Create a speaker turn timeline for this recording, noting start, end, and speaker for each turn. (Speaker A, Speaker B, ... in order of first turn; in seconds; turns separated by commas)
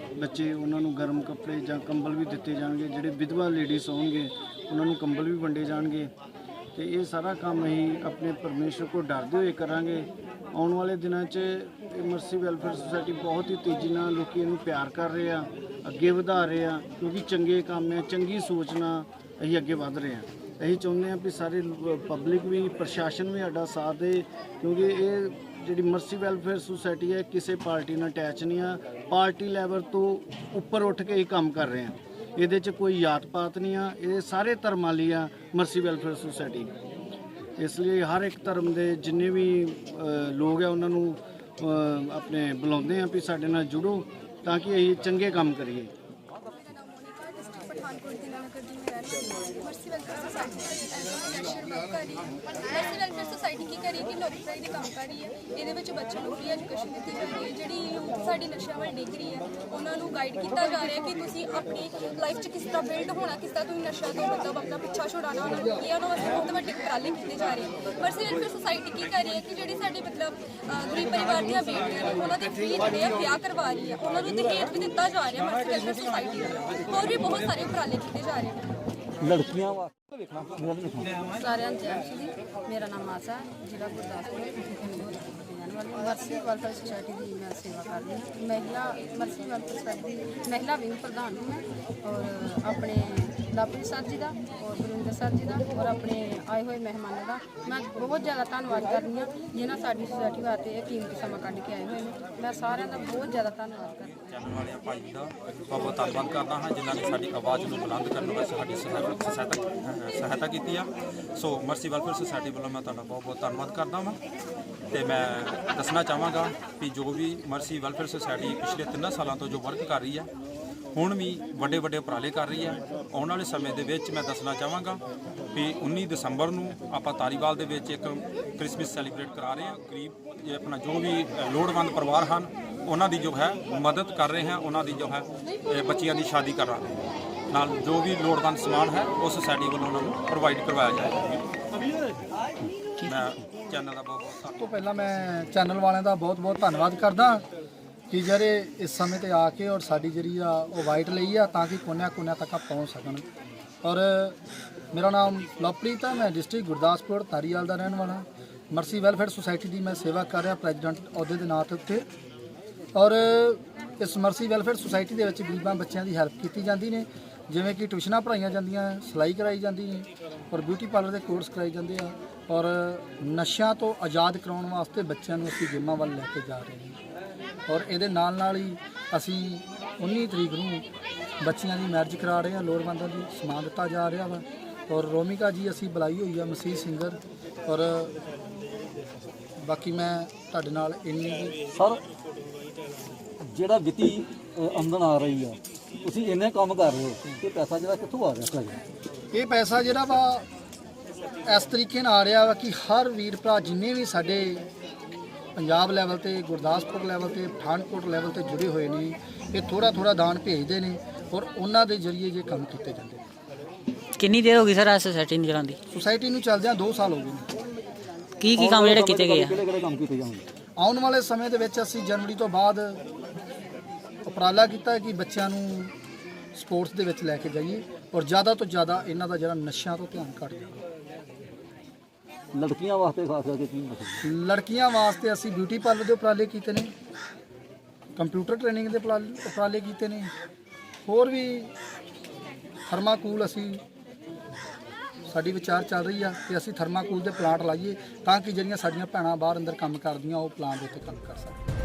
Speaker A: 0.2-6.1, Speaker A: 6.8-36.7, Speaker A: 37.6-45.9, Speaker B: 46.6-78.7, Speaker C: 79.2-81.2, Speaker D: 81.3-104.2, Speaker E: 104.3-114.2, Speaker E: 114.9-120.3, Speaker E: 121.0-125.0, Speaker E: 125.5-136.9, Speaker E: 137.5-141.4, Speaker E: 143.1-144.6, Speaker F: 144.6-147.4, Speaker F: 148.1-153.2, Speaker F: 153.8-154.4, Speaker F: 154.9-162.1, Speaker F: 163.0-177.0, Speaker F: 177.7-180.9, Speaker F: 181.4-188.2, Speaker F: 189.6-191.6, Speaker C: 191.8-192.0, Speaker C: 193.5-198.8, Speaker F: 199.3-200.5, Speaker F: 201.4-204.7, Speaker F: 205.6-213.2, Speaker G: 214.2-215.8, Speaker F: 215.9-217.5, Speaker G: 218.4-219.6, Speaker C: 218.6-220.5, Speaker F: 220.8-223.0, Speaker F: 224.3-225.9, Speaker F: 226.6-230.8, Speaker C: 232.5-234.2, Speaker F: 234.2-236.9, Speaker F: 238.2-240.3, Speaker F: 241.1-241.7, Speaker F: 242.9-243.8, Speaker F: 245.3-251.6